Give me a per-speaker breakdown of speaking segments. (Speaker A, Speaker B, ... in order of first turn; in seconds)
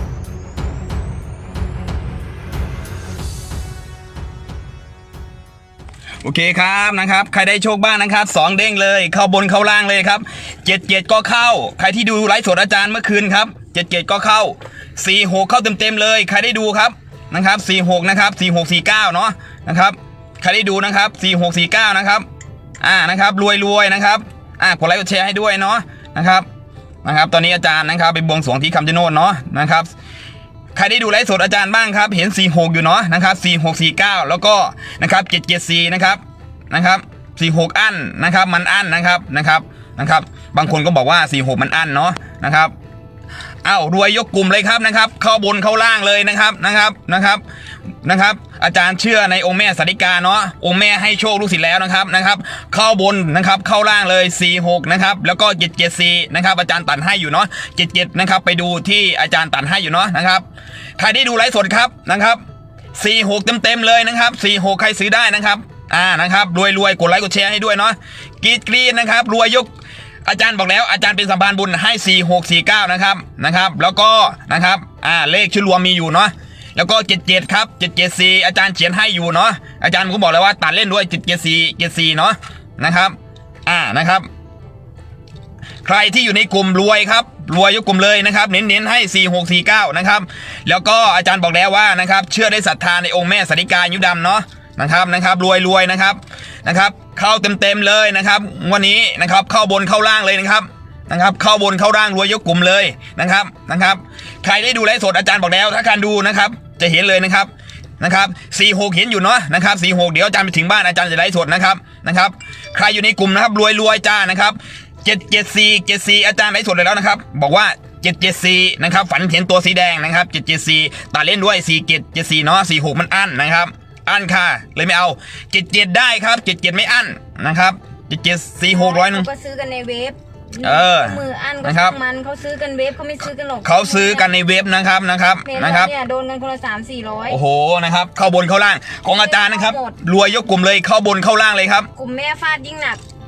Speaker A: 6.2-22.3, 22.8-26.5, 27.0-29.9, 30.7-42.7, 43.6-47.4, 48.0-60.5, 61.0-62.4, 62.9-69.7, 70.2-83.2, 83.7-84.3, 85.8-129.3, 130.6-132.0, 133.6-135.9, 137.3-141.9
Speaker B: 128.7-134.3, 135.4-137.4, 139.1-140.0, 142.0-143.0